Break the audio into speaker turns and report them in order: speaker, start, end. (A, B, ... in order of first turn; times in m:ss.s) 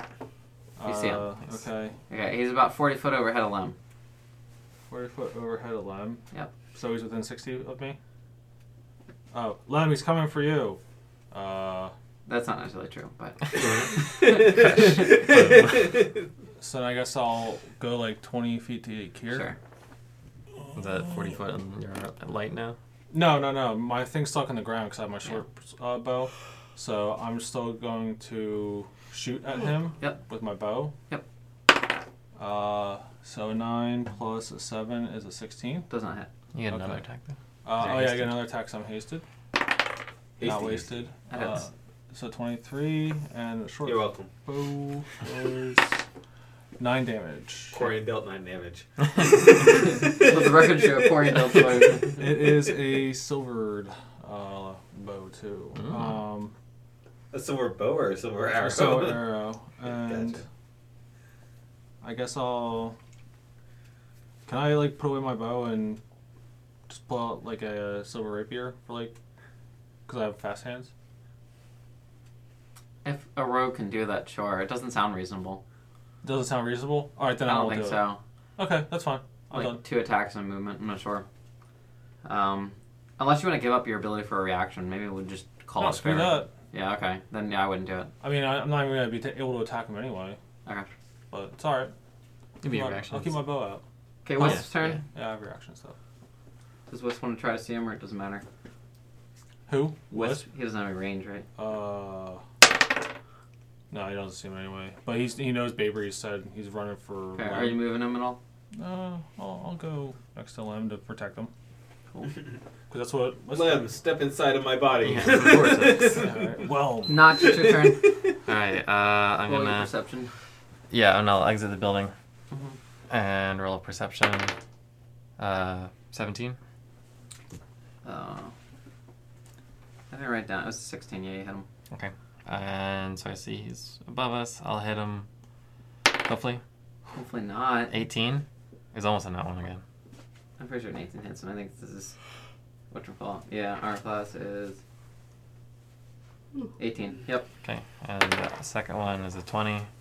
0:00.8-0:02.0 A
0:00.8-0:01.3 B
0:02.1-0:03.8 B
0:04.9-0:06.2 A
0:06.7-0:08.0 A
0:09.3-0:10.8 A
0:11.3-0:11.9 A
0:12.3-0:14.5 B
0:13.6-0:16.2 C
0:13.6-0:16.0 D
0:16.6-0:19.5 A
0:19.3-0:19.6 B
0:20.7-0:22.8 D
0:23.1-0:30.9 A
0:32.4-0:35.9 A
0:35.9-0:36.3 B
0:36.5-0:38.1 D
0:36.7-0:37.0 A
0:37.6-0:39.2 A
0:37.8-0:38.2 B
0:40.4-0:41.0 C
0:40.4-0:46.0 A
0:41.3-0:41.7 B
0:43.8-0:44.3 C
0:46.8-0:47.9 A
0:47.7-0:52.1 C
0:50.2-0:52.2 B
0:52.2-0:56.5 A
0:55.8-0:56.2 D
0:57.3-1:00.4 C
0:58.6-1:00.4 A
1:02.0-1:03.0 A
1:04.5-1:06.0 A
1:06.9-1:09.1 A
1:10.1-1:10.9 A
1:13.0-1:15.6 B
1:16.2-1:19.8 A
1:17.4-1:18.2 B
1:19.5-1:21.2 B
1:22.2-1:28.1 B
1:25.8-1:26.5 A
1:28.2-1:30.4 A
1:31.3-1:31.9 A
1:32.6-1:33.4 D
1:32.6-1:33.8 A
1:34.2-1:35.0 B
1:34.4-1:36.0 A
1:34.4-1:35.0 D
1:36.9-1:38.4 B
1:39.7-1:40.4 A
1:40.1-1:41.5 B
1:41.6-1:42.4 A
1:43.9-1:47.8 A
1:47.4-1:48.4 B
1:48.8-1:51.5 A
1:52.9-1:53.9 A
1:53.5-1:56.6 C
1:55.0-1:56.2 D
1:56.2-1:57.4 A
1:57.1-1:58.1 B
1:57.4-1:58.1 C
1:58.5-1:59.9 D
1:59.5-2:00.3 B
2:00.9-2:02.1 D
2:02.5-2:02.8 B
2:03.1-2:04.5 D
2:05.4-2:06.6 D
2:08.0-2:08.5 B
2:10.1-2:11.7 B
2:11.9-2:15.3 D
2:16.1-2:16.6 D
2:17.1-2:17.9 B
2:17.9-2:19.8 D
2:20.6-2:22.2 B
2:22.9-2:24.8 B
2:26.8-2:27.5 B
2:27.6-2:29.9 D